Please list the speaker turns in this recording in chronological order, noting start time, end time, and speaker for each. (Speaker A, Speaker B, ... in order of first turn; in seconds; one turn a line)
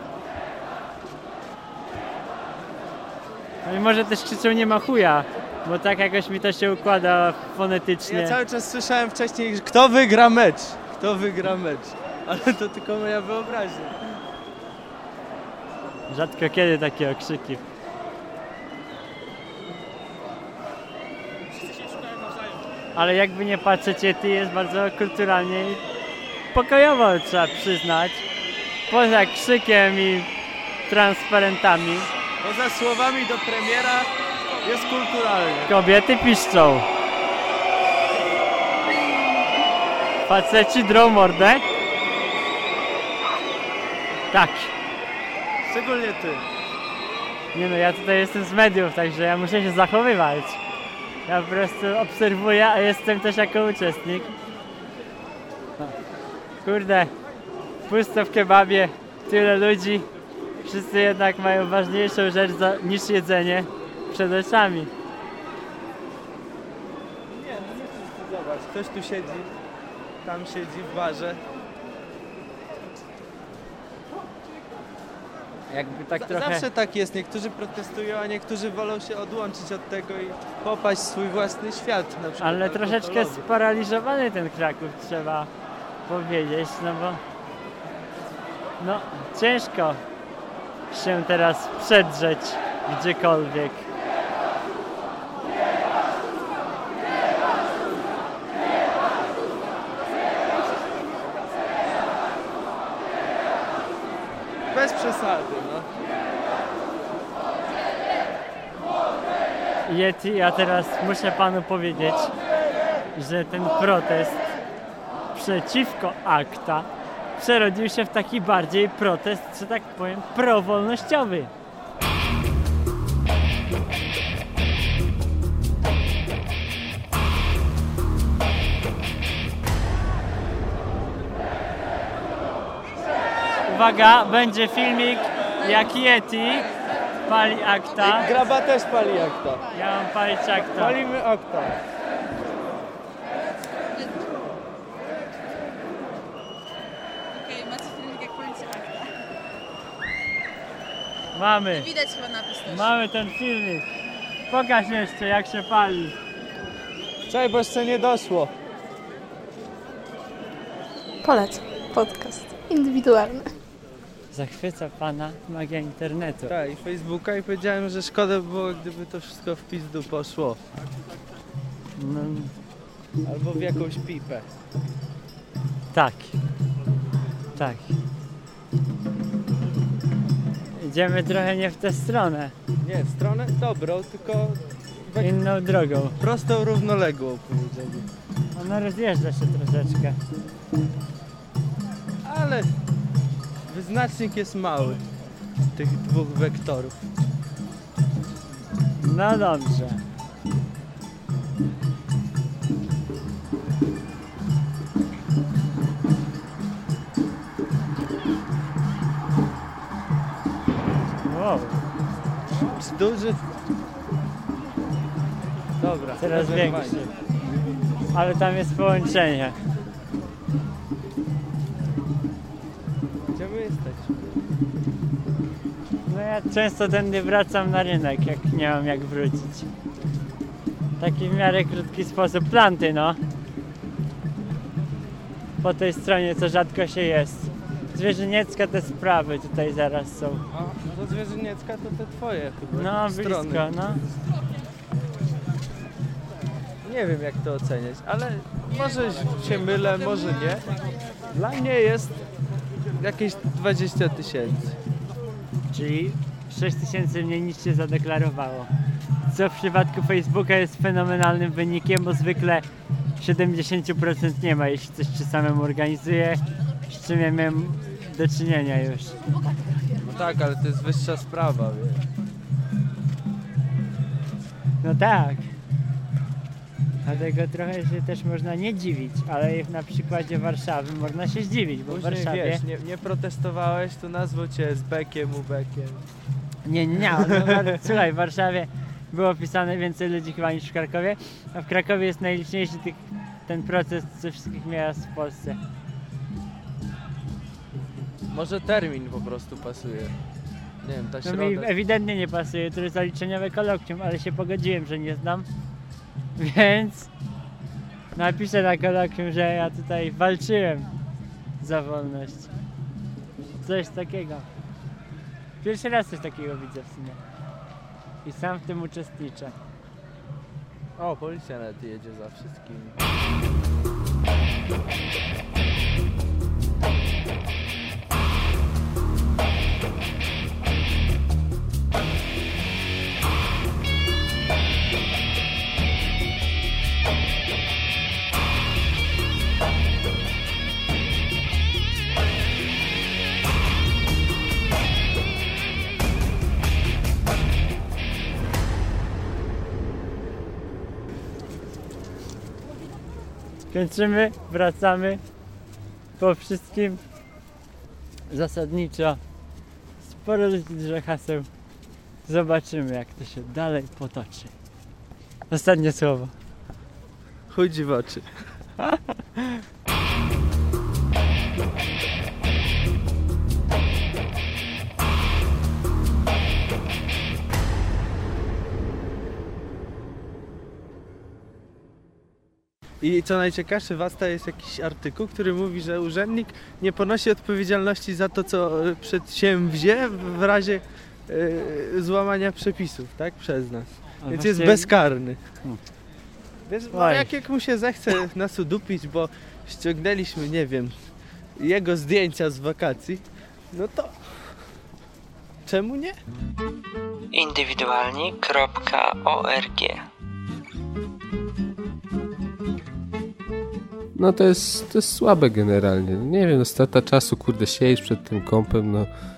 Speaker A: 3.6-8.4
Speaker B: 8.0-14.0
Speaker A: 16.1-17.6
Speaker A: 22.9-25.8
Speaker A: 26.5-28.2
Speaker A: 28.9-30.3
Speaker A: 30.9-32.1
Speaker B: 32.4-34.1
Speaker B: 34.6-35.7
Speaker A: 35.7-36.8
Speaker A: 40.3-41.6
Speaker A: 44.3-44.7
Speaker B: 45.6-46.5
Speaker A: 47.5-50.6
Speaker A: 51.2-54.3
Speaker A: 56.6-57.1
Speaker A: 57.9-60.0
Speaker A: 60.6-64.9
Speaker B: 67.3-69.5
Speaker B: 70.2-71.4
Speaker A: 75.7-76.7
Speaker B: 76.1-83.4
Speaker A: 82.4-85.5
Speaker A: 86.0-87.2
Speaker A: 88.8-90.0
Speaker A: 90.9-93.8
Speaker B: 104.7-105.9
Speaker A: 109.9-112.3
Speaker A: 113.1-114.4
Speaker A: 115.3-121.5
Speaker A: 133.7-136.7
Speaker C: 135.6-135.9
Speaker A: 137.2-138.3
Speaker B: 138.0-139.6
Speaker A: 139.7-141.0
Speaker B: 140.5-141.7
Speaker C: 143.9-144.2
Speaker C: 147.3-149.1
Speaker A: 151.3-151.9
Speaker C: 151.7-152.9
Speaker A: 152.7-153.9
Speaker A: 154.5-156.1
Speaker B: 157.3-158.5
Speaker D: 161.2-163.5
Speaker A: 164.3-166.5
Speaker B: 166.4-170.6
Speaker A: 171.9-172.5
Speaker B: 173.2-174.4
Speaker A: 175.9-176.3
Speaker A: 177.6-177.9
Speaker A: 180.7-182.5
Speaker B: 182.8-185.3
Speaker A: 185.2-186.2
Speaker B: 186.2-188.1
Speaker A: 188.5-190.2
Speaker B: 192.2-192.7
Speaker B: 193.7-195.0
Speaker B: 195.7-197.0
Speaker A: 199.0-200.0
Speaker A: 211.3-211.8
Speaker B: 212.5-213.4
Speaker B: 215.8-217.1
Speaker A: 216.2-217.1
Speaker A: 218.1-219.6
Speaker B: 223.3-224.3
Speaker A: 226.1-229.7
Speaker A: 231.0-233.2
Speaker A: 235.6-240.4
Speaker B: 240.5-243.7
Speaker A: 242.7-244.0
Speaker B: 246.8-250.7
Speaker B: 251.3-252.2
Speaker B: 253.0-254.8
Speaker A: 255.7-258.7
Speaker A: 259.3-262.6
Speaker A: 263.2-269.1
Speaker B: 270.0-272.0
Speaker A: 274.8-275.5
Speaker A: 277.0-282.6
Speaker B: 281.9-286.0
Speaker A: 286.6-295.6
Speaker B: 287.1-287.6
Speaker B: 298.3-300.1
Speaker B: 300.8-301.7
Speaker A: 301.2-305.5
Speaker A: 306.4-307.1
Speaker A: 308.1-310.9
Speaker A: 311.6-312.5
Speaker A: 313.6-314.4
Speaker A: 315.6-317.2
Speaker A: 318.2-319.5
Speaker B: 321.0-322.9
Speaker A: 353.7-355.2
Speaker A: 356.2-357.0
Speaker A: 358.3-359.2
Speaker A: 360.0-361.5
Speaker A: 362.2-364.5
Speaker A: 365.5-366.3
Speaker B: 367.5-368.2
Speaker B: 383.0-395.4
Speaker A: 394.2-394.9
Speaker B: 396.7-400.9
Speaker A: 396.9-397.4
Speaker B: 401.6-404.1
Speaker B: 405.6-406.1
Speaker E: 407.3-410.0
Speaker F: 414.1-419.1